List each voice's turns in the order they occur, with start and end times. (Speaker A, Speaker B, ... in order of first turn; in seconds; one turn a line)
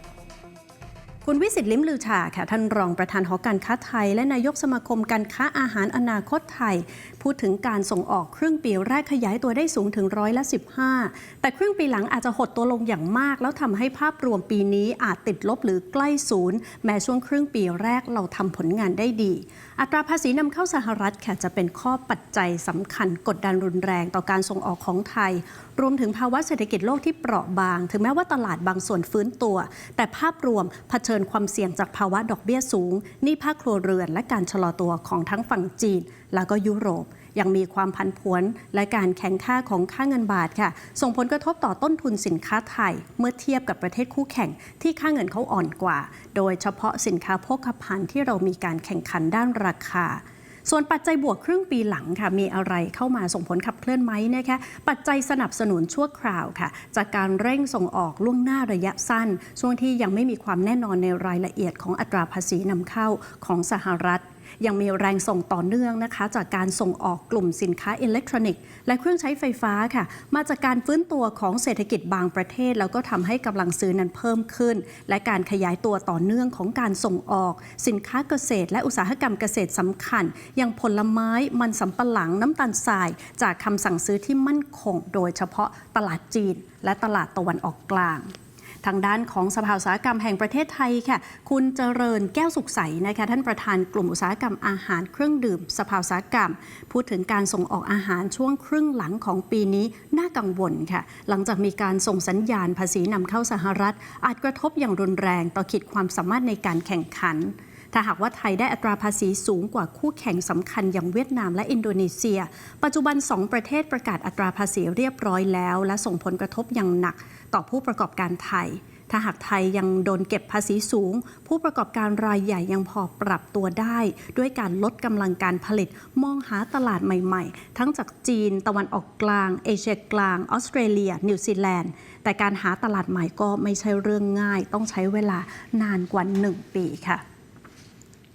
Speaker A: 1.2-88.3
Speaker A: 88.8-137.2